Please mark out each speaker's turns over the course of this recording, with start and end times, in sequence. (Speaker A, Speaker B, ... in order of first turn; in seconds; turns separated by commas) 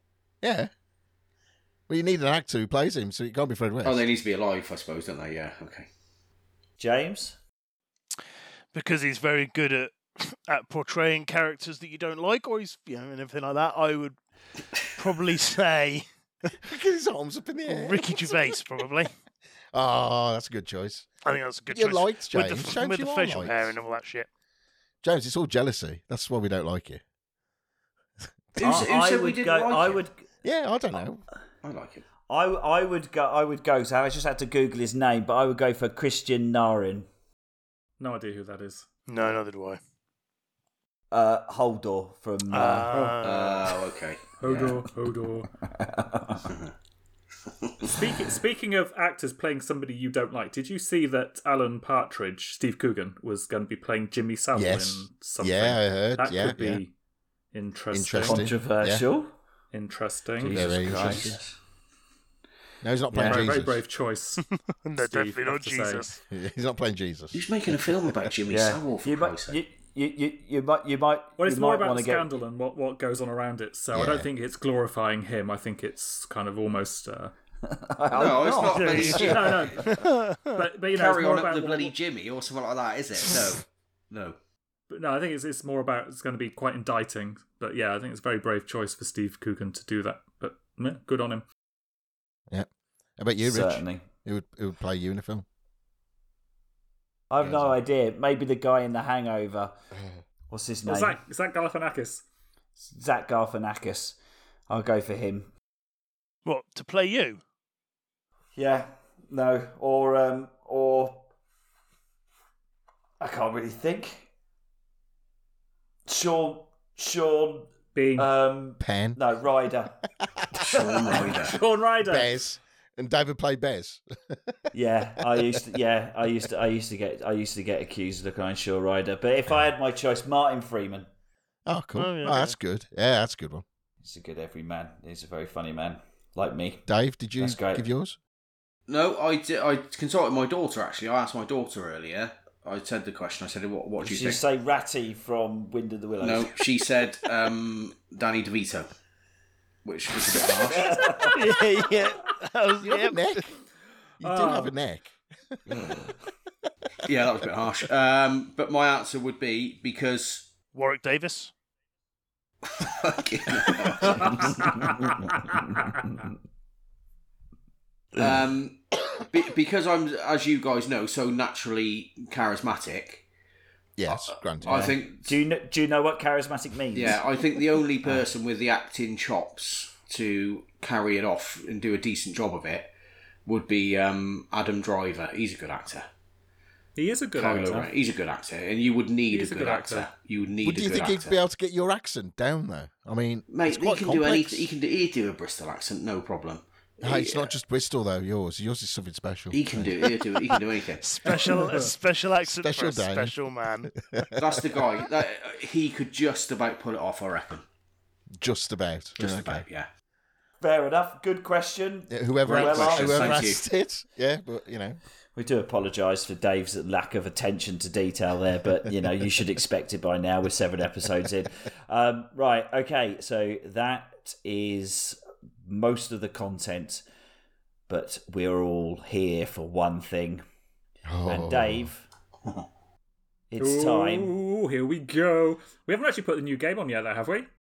Speaker A: 0.4-0.7, Speaker A: 1.9-4.0, Speaker B: 3.8-5.9, Speaker C: 6.8-7.4, Speaker D: 8.7-14.2, Speaker D: 14.9-16.0, Speaker A: 16.6-18.5, Speaker D: 17.7-19.1, Speaker A: 19.7-21.1, Speaker D: 21.2-24.3, Speaker A: 21.7-23.8, Speaker A: 25.0-27.0, Speaker A: 28.6-28.9, Speaker B: 28.6-30.0, Speaker C: 28.6-30.2, Speaker A: 30.4-31.2, Speaker B: 31.6-32.0, Speaker C: 32.3-37.1, Speaker E: 38.0-38.9, Speaker D: 39.1-39.8, Speaker C: 41.1-42.9, Speaker D: 42.5-43.7, Speaker E: 42.9-43.2, Speaker B: 43.2-44.8, Speaker E: 44.4-45.5, Speaker C: 45.7-46.5, Speaker B: 46.5-46.7, Speaker B: 47.6-47.9, Speaker E: 47.9-56.9, Speaker A: 54.5-56.8, Speaker E: 57.5-58.5, Speaker A: 57.9-59.0, Speaker C: 58.2-59.3, Speaker E: 59.7-60.6, Speaker C: 60.4-61.4, Speaker A: 60.5-61.4, Speaker B: 60.8-61.4, Speaker A: 62.8-63.8, Speaker C: 63.1-63.5, Speaker E: 63.2-64.4, Speaker D: 64.8-66.2, Speaker E: 65.0-66.1, Speaker A: 66.3-67.5, Speaker B: 67.3-69.6, Speaker C: 68.5-72.3, Speaker E: 71.4-77.3, Speaker A: 73.9-74.3, Speaker C: 77.6-79.7, Speaker B: 78.1-79.8, Speaker E: 78.7-81.9, Speaker D: 79.8-80.5, Speaker B: 80.9-84.4, Speaker E: 84.9-91.4, Speaker A: 92.5-95.5, Speaker C: 93.4-94.0, Speaker C: 97.3-99.7, Speaker A: 97.4-97.8, Speaker C: 100.5-101.2, Speaker E: 100.8-102.2, Speaker C: 102.8-104.2, Speaker C: 104.7-105.5, Speaker D: 106.4-107.4, Speaker C: 108.5-111.2, Speaker C: 113.2-114.3, Speaker C: 116.1-120.0, Speaker E: 117.9-118.3, Speaker A: 118.8-119.2, Speaker B: 120.6-121.6, Speaker C: 120.7-121.3, Speaker E: 121.3-122.3, Speaker A: 122.0-124.5, Speaker C: 124.7-131.1, Speaker A: 131.7-133.6, Speaker D: 131.9-132.5, Speaker C: 134.0-136.8, Speaker A: 136.9-138.2, Speaker C: 137.4-137.9, Speaker B: 138.9-144.4, Speaker C: 144.0-146.6, Speaker B: 146.2-148.9, Speaker B: 149.8-151.1, Speaker C: 150.6-151.4, Speaker E: 151.1-151.3, Speaker D: 151.3-153.4, Speaker A: 152.8-153.5, Speaker A: 154.2-156.0, Speaker E: 154.2-154.7, Speaker B: 155.7-156.0, Speaker B: 157.0-160.5, Speaker D: 160.7-161.5, Speaker B: 162.6-164.9, Speaker E: 164.7-165.0, Speaker B: 168.1-173.2, Speaker A: 174.0-174.9, Speaker B: 174.1-175.4, Speaker C: 174.6-177.2, Speaker B: 176.9-182.9, Speaker B: 183.4-186.1, Speaker E: 186.9-187.9, Speaker B: 187.3-191.3, Speaker C: 187.4-187.9, Speaker E: 189.3-190.1, Speaker A: 190.6-194.7, Speaker B: 193.5-197.5, Speaker A: 197.0-200.1, Speaker B: 199.5-201.1, Speaker D: 201.0-203.9, Speaker A: 202.4-203.3, Speaker A: 203.9-204.8, Speaker B: 204.4-207.6, Speaker A: 208.4-209.6, Speaker B: 209.2-209.9, Speaker C: 210.6-213.5, Speaker A: 212.1-215.0, Speaker B: 212.4-213.6, Speaker C: 215.3-227.0, Speaker C: 227.9-230.4, Speaker A: 231.0-231.9, Speaker C: 231.3-232.1, Speaker C: 233.5-234.3, Speaker E: 233.6-237.5